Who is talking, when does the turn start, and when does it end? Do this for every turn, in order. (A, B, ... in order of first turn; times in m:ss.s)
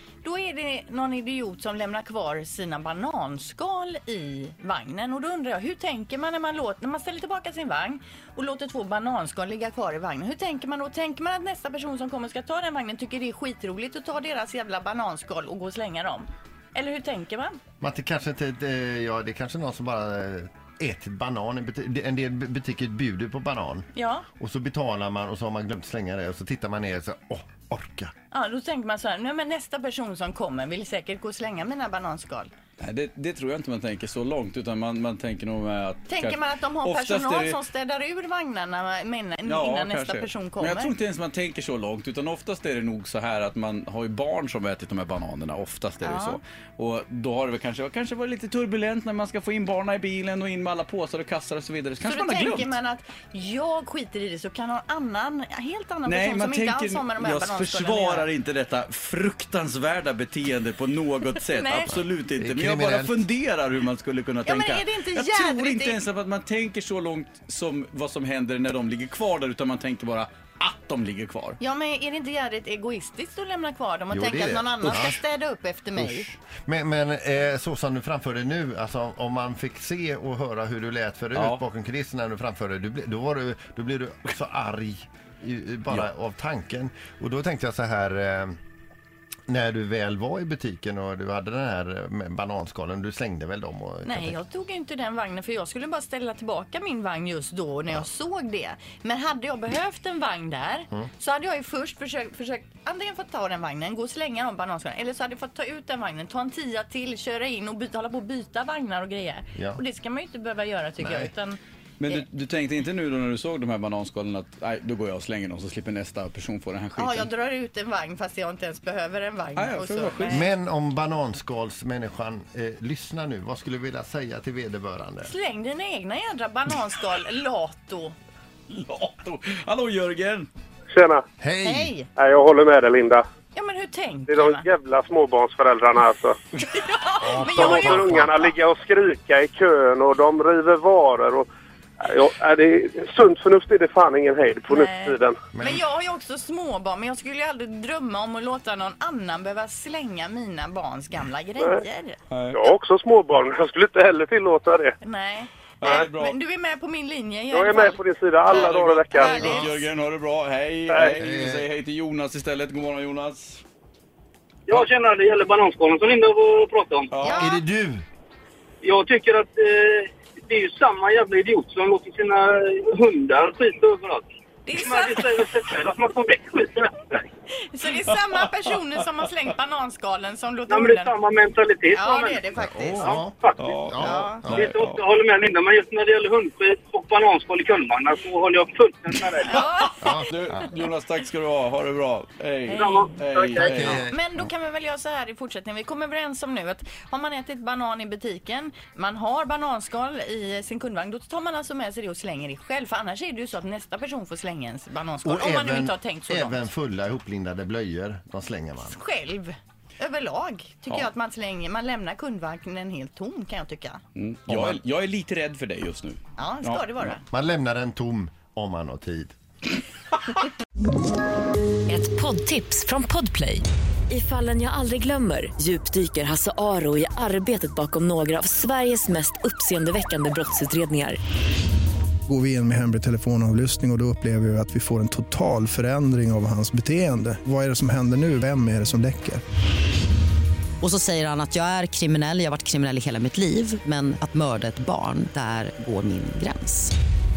0:00.2-0:17.6 A
0:17.8-0:28.1 B
0:23.9-0:24.3 A
0:28.3-0:32.5 A
0:32.8-0:37.6 C
0:36.1-0:40.9 A
0:39.4-0:52.7 C
0:46.0-0:46.4 A
0:52.0-0:58.3 A
0:56.0-1:11.6 C
1:01.4-1:02.0 A
1:02.4-1:03.2 B
1:04.4-1:06.0 A
1:11.6-1:16.3 A
1:14.1-1:15.2 B
1:16.0-1:28.6 B
1:21.3-1:21.6 C
1:29.5-1:34.4 B
1:34.0-1:51.6 A
1:49.5-1:49.8 B
1:51.0-1:51.3 B
1:52.0-1:57.3 C
1:57.0-2:00.5 A
1:59.6-2:00.4 C
2:00.2-2:05.3 B
2:05.2-2:08.1 A
2:08.7-2:10.5 C
2:10.9-2:11.2 D
2:11.4-2:11.9 B
2:11.6-2:12.1 A
2:12.2-2:13.2 D
2:13.5-2:14.6 A
2:14.3-2:16.4 D
2:16.5-2:18.5 A
2:17.2-2:18.4 B
2:17.4-2:21.5 D
2:22.0-2:25.4 D
2:24.7-2:32.2 A
2:25.5-2:25.8 B
2:32.3-2:32.6 C
2:32.5-2:34.9 D
2:35.0-2:39.8 A
2:35.8-2:36.4 C
2:37.5-2:39.6 D
2:38.5-2:43.6 C
2:40.9-2:41.2 D
2:41.2-2:41.7 B
2:44.7-2:47.1 E
2:47.1-2:47.5 C
2:47.2-2:47.6 A
2:47.3-2:48.0 B
2:48.8-2:57.2 E
2:54.6-2:55.5 A
2:57.5-3:01.1 A
3:00.7-3:03.7 E
3:01.9-3:03.2 A
3:02.6-3:03.3 B
3:03.6-3:05.0 C
3:03.8-3:04.7 B
3:04.0-3:04.4 A
3:04.5-3:09.6 E
3:09.4-3:10.3 A
3:10.0-3:10.6 B
3:10.3-3:14.0 C
3:12.7-3:13.9 E
3:13.6-3:14.5 B
3:13.9-3:26.7 A
3:25.2-3:29.0 B
3:28.8-3:34.0 A
3:34.2-3:37.1 C
3:34.5-3:34.8 B
3:36.4-3:37.2 A
3:37.3-3:39.4 B
3:41.9-3:51.2 F
3:52.3-3:59.4 G
4:00.8-4:06.9 H